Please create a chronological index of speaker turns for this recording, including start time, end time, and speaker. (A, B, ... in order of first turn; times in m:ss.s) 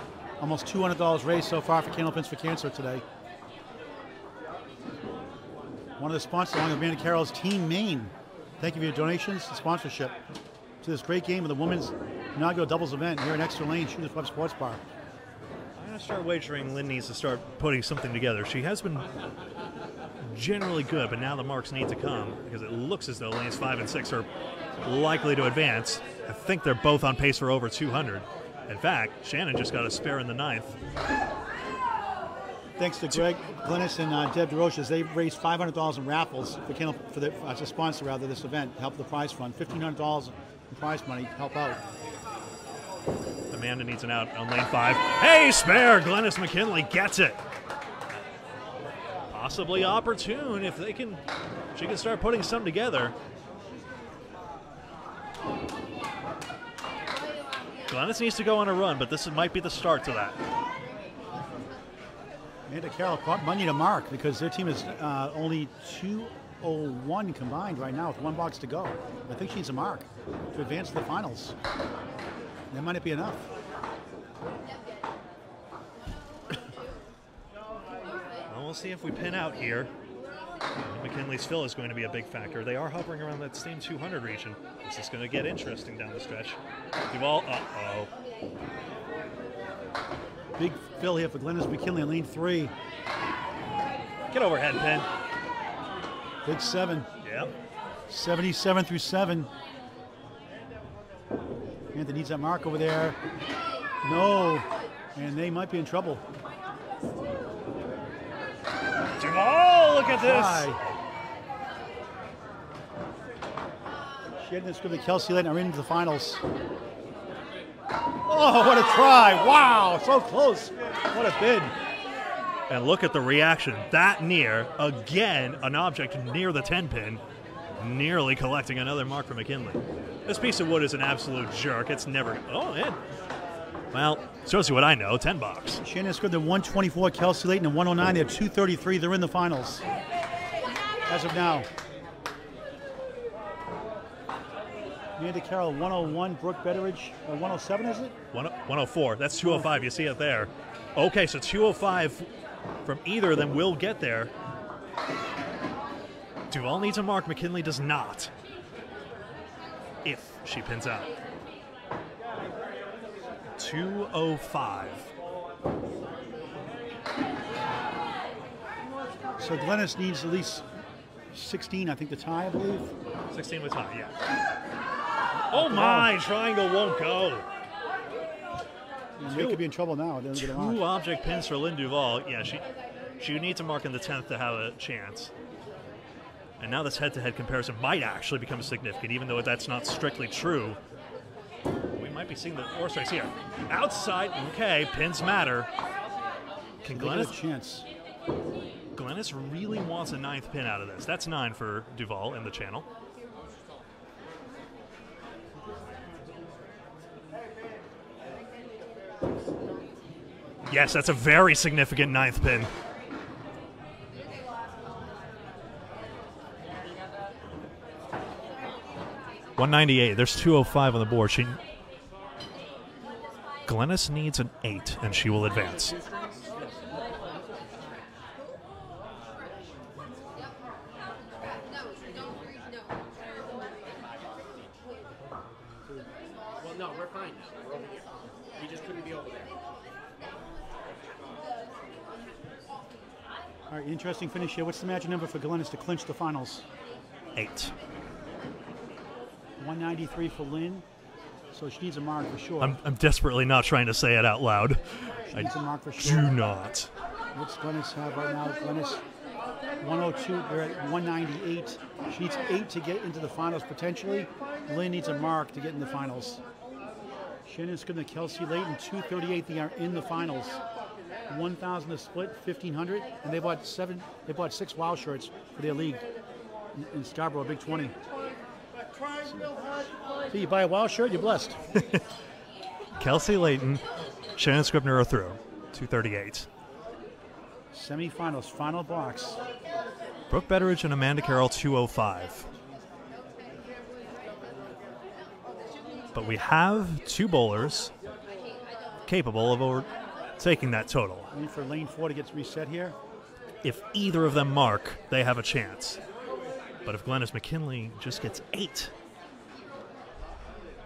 0:00.4-0:03.0 A
0:06.0-0:10.2 A
0:10.8-0:14.8 A
0:15.8-0:19.1 B
0:20.2-0:24.3 B
0:24.8-0:30.8 B
0:32.8-0:41.8 A
0:43.5-0:47.4 B
0:49.3-0:51.2 B
0:51.7-0:53.2 B
0:57.9-1:00.4 B
1:02.7-1:11.5 A
1:12.7-1:13.5 A
1:18.5-1:19.9 B
1:20.8-1:26.6 B
1:27.1-1:28.1 B
1:30.6-1:32.7 A
1:34.3-1:35.1 B
1:36.4-1:37.1 A
1:37.2-1:37.5 B
1:38.1-1:39.5 A
1:41.9-1:43.2 A
1:44.0-1:46.2 A
1:49.2-1:50.7 B
1:50.2-1:50.8 A
1:54.4-1:56.4 A
1:58.3-2:01.7 A
2:02.7-2:07.2 B
2:07.8-2:13.0 B
2:13.9-2:15.8 B
2:15.8-2:19.8 A
2:21.1-2:21.7 A
2:25.2-2:28.1 A
2:28.3-2:32.3 B
2:32.8-2:34.3 B
2:36.5-2:38.3 B
2:40.0-2:41.1 B
2:43.6-2:45.1 B
2:49.4-2:50.6 A
2:51.3-2:52.9 A
2:53.3-2:54.1 B
2:55.4-2:56.1 A
2:55.5-2:57.5 B
2:59.2-3:00.8 A
2:59.2-2:59.6 B
3:00.3-3:02.6 B
3:03.2-3:05.3 B
3:06.6-3:10.8 B
3:11.9-3:15.7 B
3:16.8-3:17.4 B
3:16.9-3:17.8 A
3:18.9-3:22.9 B
3:30.7-3:32.7 B
3:39.6-3:41.6 B
3:43.6-3:46.0 B
3:45.8-3:47.7 C
3:51.8-3:52.6 C
3:53.6-3:54.5 C
3:56.6-3:59.6 C
4:03.7-4:06.6 A
4:07.3-4:07.7 B
4:09.6-4:10.8 A
4:11.5-4:12.8 A
4:12.6-4:16.9 B
4:15.3-4:16.3 A
4:17.3-4:19.0 A
4:19.8-4:26.4 A
4:27.4-4:30.6 A
4:31.3-4:36.0 A
4:36.7-4:38.0 A
4:40.3-4:41.7 A
4:41.7-4:42.0 B
4:43.0-4:43.8 B
4:44.4-4:46.5 B
4:47.7-4:49.4 A
4:50.3-4:52.5 B
4:56.1-4:57.9 B
4:59.0-5:01.3 B
5:01.3-5:03.0 A
5:03.6-5:06.0 B
5:06.8-5:08.9 B